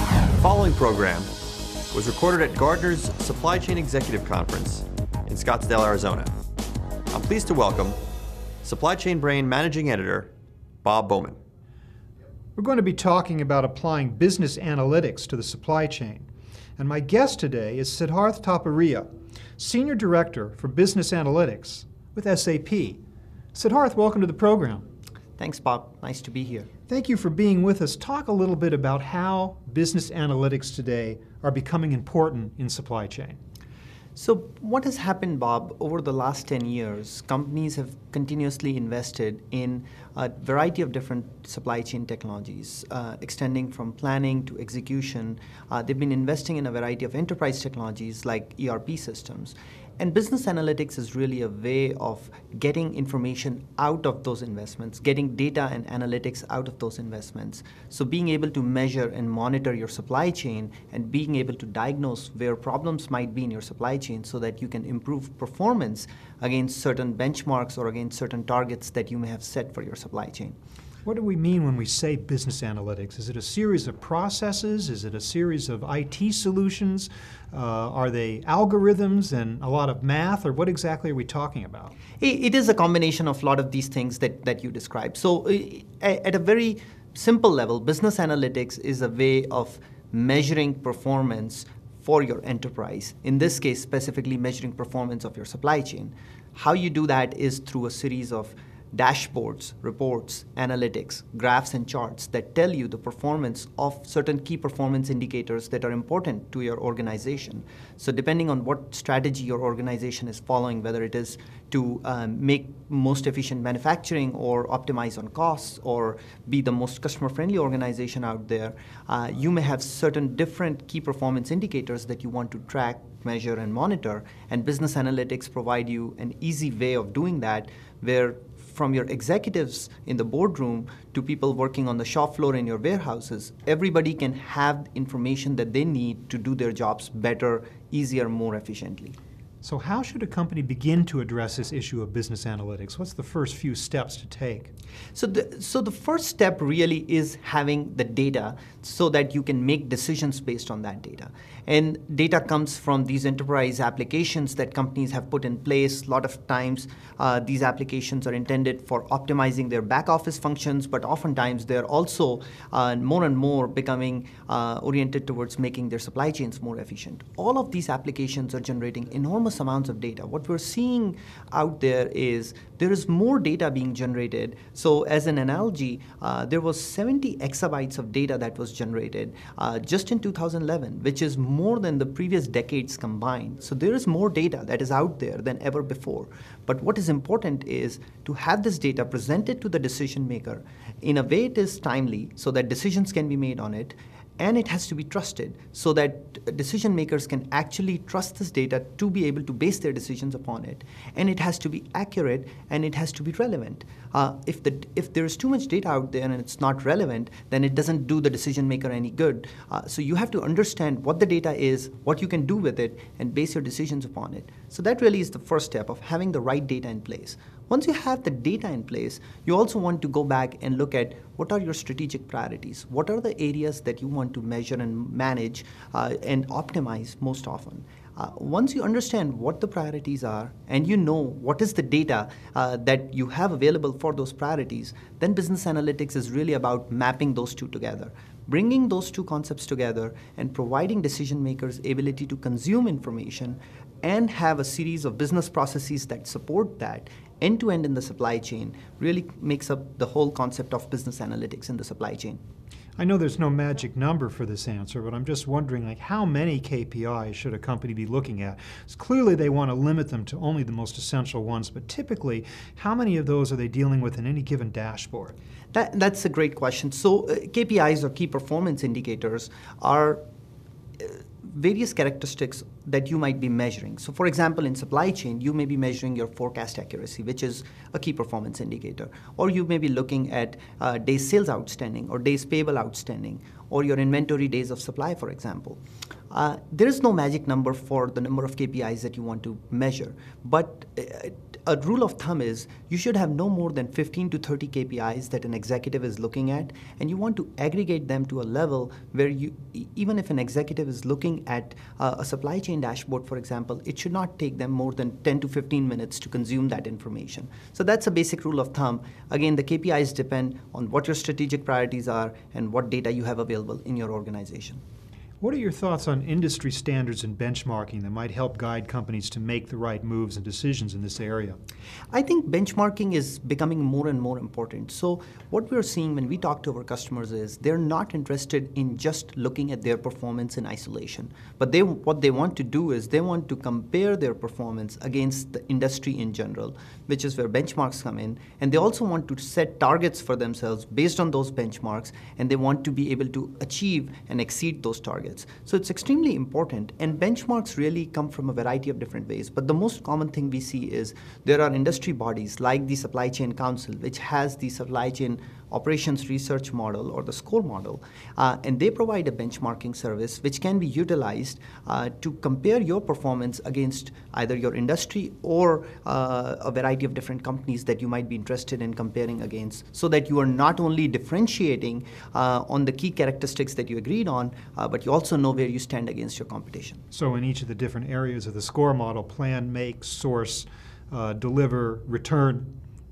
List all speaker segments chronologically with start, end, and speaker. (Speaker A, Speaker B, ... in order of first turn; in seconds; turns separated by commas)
Speaker A: 0.4-1.3, Speaker A: 1.9-6.3, Speaker A: 7.1-8.0, Speaker A: 8.6-10.3, Speaker A: 10.8-11.4, Speaker B: 12.6-16.2, Speaker B: 16.8-19.1, Speaker B: 19.6-23.0, Speaker B: 23.5-24.8, Speaker C: 25.4-26.7, Speaker B: 26.9-33.4, Speaker C: 34.1-70.5, Speaker B: 71.0-81.9, Speaker C: 82.2-139.2, Speaker B: 139.6-144.7, Speaker C: 145.1-252.4, Speaker B: 253.0-265.3, Speaker C: 265.7-270.2, Speaker C: 271.0-285.8, Speaker C: 286.3-314.8, Speaker B: 315.4-321.6, Speaker C: 322.1-377.0, Speaker B: 377.1-382.7